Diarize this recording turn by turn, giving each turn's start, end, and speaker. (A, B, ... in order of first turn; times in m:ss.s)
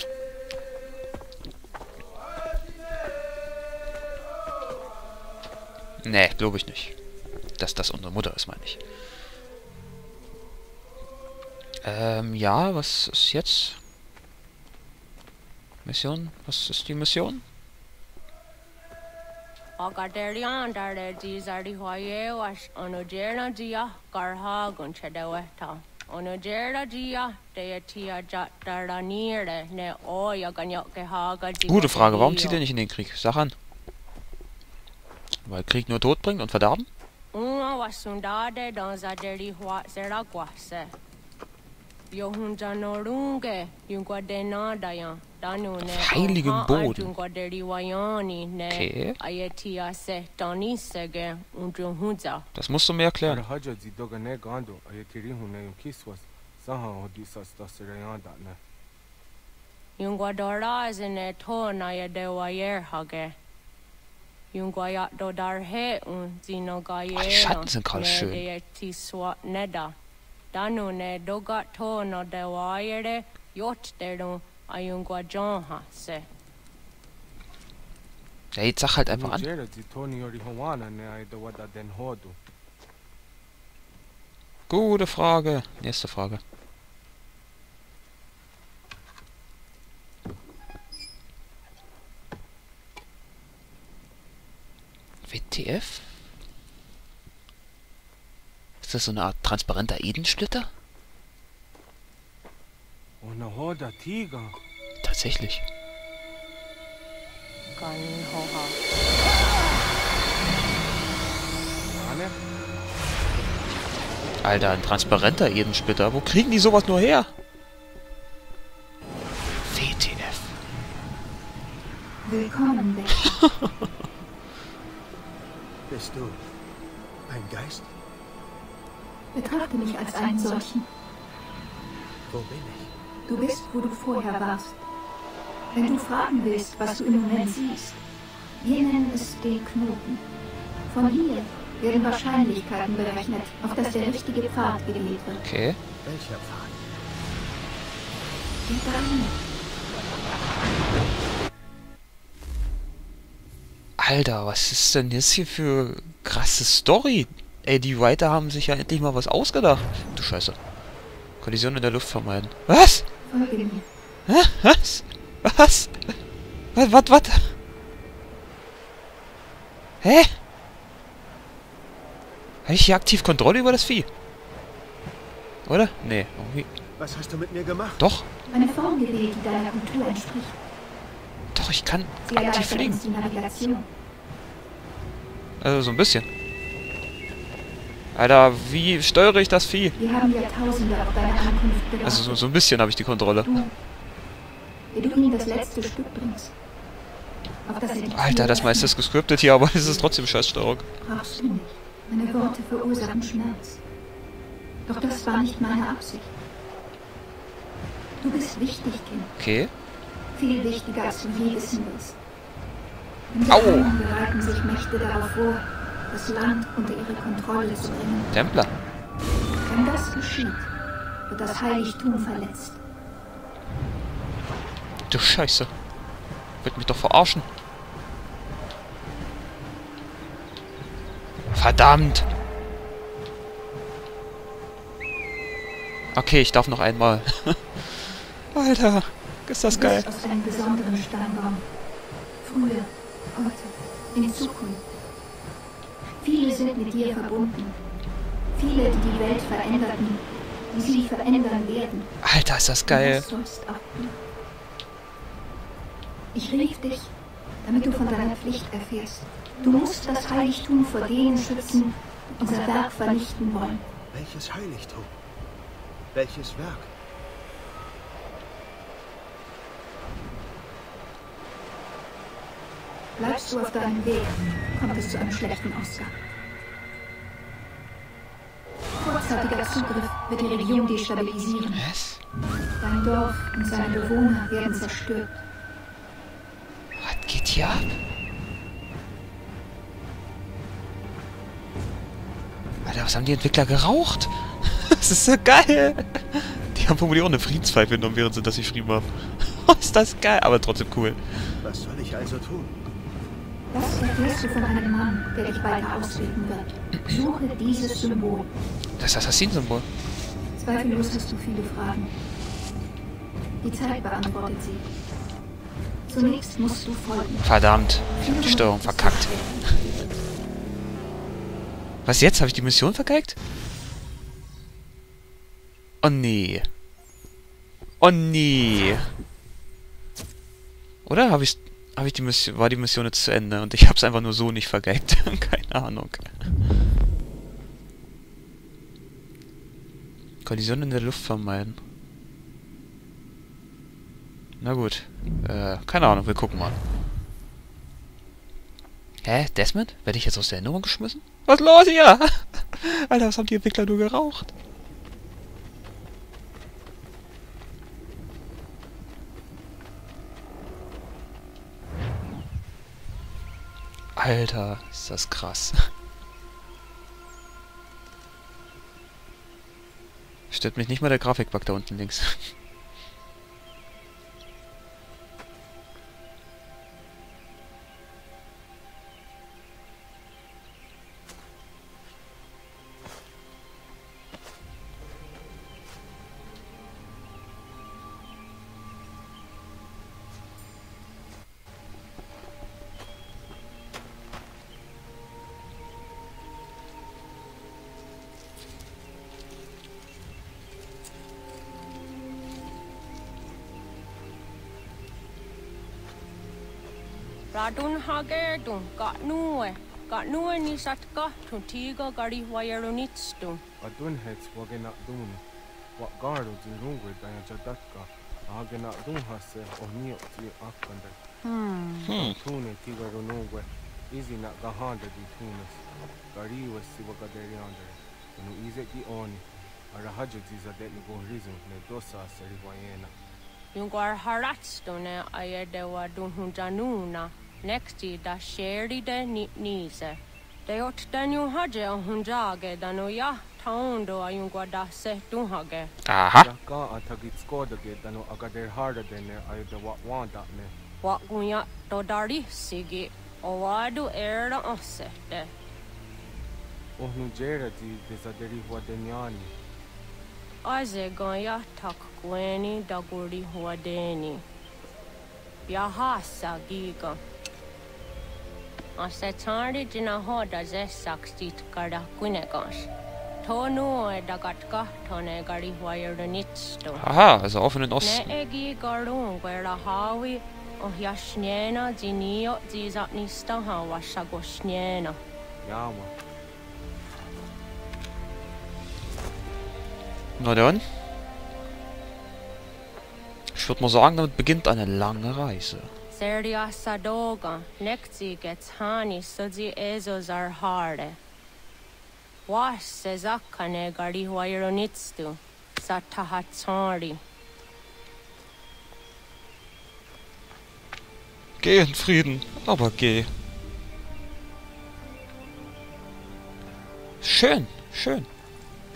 0:06.0-0:07.0 A
0:07.6-0:08.8 A
0:11.8-0:13.8 A
0:15.8-0:17.4 A
0:19.8-0:32.6 B
0:31.7-0:33.5 A
0:35.4-0:36.9 A
0:37.3-0:40.9 B
0:42.1-0:52.5 B
0:45.8-0:47.1 A
0:48.7-0:49.2 A
0:52.5-0:53.4 A
0:53.2-0:58.6 C
1:00.0-1:03.4 B
1:04.5-1:09.9 B
1:07.1-1:08.4 A
1:10.5-1:16.3 B
1:18.5-1:19.4 A
1:19.1-1:22.4 C
1:24.7-1:26.4 A
1:35.2-1:36.2 A
1:38.8-1:40.7 A
1:43.2-1:44.6 C
1:45.0-1:45.6 A
1:47.8-1:48.8 B
1:51.9-1:52.3 C
1:54.4-1:57.3 A
1:59.6-2:00.6 A
2:02.2-2:03.3 D
2:03.4-2:03.9 A
2:05.9-2:06.4 E
2:07.3-2:07.9 E
2:09.3-2:10.9 D
2:12.3-2:12.9 E
2:13.2-2:14.8 D
2:15.7-2:18.0 D
2:18.6-2:20.2 D
2:20.9-2:25.4 D
2:25.4-2:25.8 A
2:26.0-2:26.8 E
2:28.6-2:29.4 D
2:34.0-2:40.6 A
2:41.4-2:43.0 A
2:43.2-2:43.9 D
2:44.3-2:46.1 A
2:46.7-2:47.5 A
2:50.0-2:50.3 A
2:52.6-2:54.1 A
2:55.6-2:56.7 A
2:57.0-2:58.0 E
2:58.0-2:58.3 A
2:58.5-3:00.6 D
3:01.5-3:03.0 A
3:02.2-3:03.9 D
3:05.6-3:06.3 A
3:08.1-3:10.0 A
3:10.0-3:12.4 D
3:12.0-3:13.6 A
3:13.4-3:13.7 D
3:14.9-3:16.5 D
3:17.6-3:19.0 D
3:18.1-3:20.8 A
3:21.0-3:23.8 D
3:24.8-3:26.3 D
3:28.2-3:29.3 D
3:29.4-3:29.7 A
3:30.3-3:32.2 D
3:33.3-3:38.3 D
3:33.5-3:33.9 A
3:38.3-3:38.7 A
3:39.6-3:40.7 D
3:41.3-3:42.8 D
3:45.1-3:45.7 A
3:46.6-3:47.5 A
3:51.5-3:52.3 A
3:56.1-4:00.1 A
3:59.7-4:01.7 D
4:02.4-4:04.8 D
4:06.2-4:07.8 D
4:08.5-4:12.1 D
4:12.2-4:13.2 A
4:12.9-4:14.2 D
4:16.3-4:23.8 D
4:24.1-4:25.2 E
4:26.1-4:26.9 E
4:33.2-4:36.1 D
4:39.0-4:41.8 D
4:41.7-4:42.2 A
4:42.8-4:45.4 D
4:47.0-4:48.0 A
4:52.8-5:01.5 A
5:01.6-5:02.8 E
5:03.7-5:08.5 D
5:09.0-5:09.9 A
5:10.5-5:12.1 D
5:13.6-5:14.9 D
5:16.1-5:17.6 D
5:17.4-5:19.4 A
5:18.2-5:20.2 D
5:22.0-5:23.4 A
5:26.0-5:26.6 A
5:28.0-5:29.0 A
5:31.0-5:36.6 A
5:40.4-5:41.8 A
5:44.6-5:46.8 A
5:49.2-5:54.5 A
6:04.2-6:05.9 A
6:10.5-6:12.5 A
6:47.5-6:53.6 B
6:53.8-6:55.4 C
6:56.0-7:01.2 C
7:02.0-7:02.4 A
7:02.1-7:13.1 C
7:13.7-7:25.9 B
7:26.0-7:26.5 A
7:26.4-7:30.7 C
7:31.0-7:35.5 B
7:37.0-7:39.5 C
7:40.6-7:44.4 B
7:45.7-7:47.2 B
7:49.0-7:52.9 B
7:53.4-7:57.0 B
7:57.0-7:58.3 A
7:58.0-8:05.2 B
8:05.6-8:06.1 C
8:10.4-8:10.8 A
8:13.5-8:15.9 A
8:16.1-8:21.2 B
8:22.5-8:27.2 B
8:31.6-8:33.3 A
8:37.2-8:38.3 A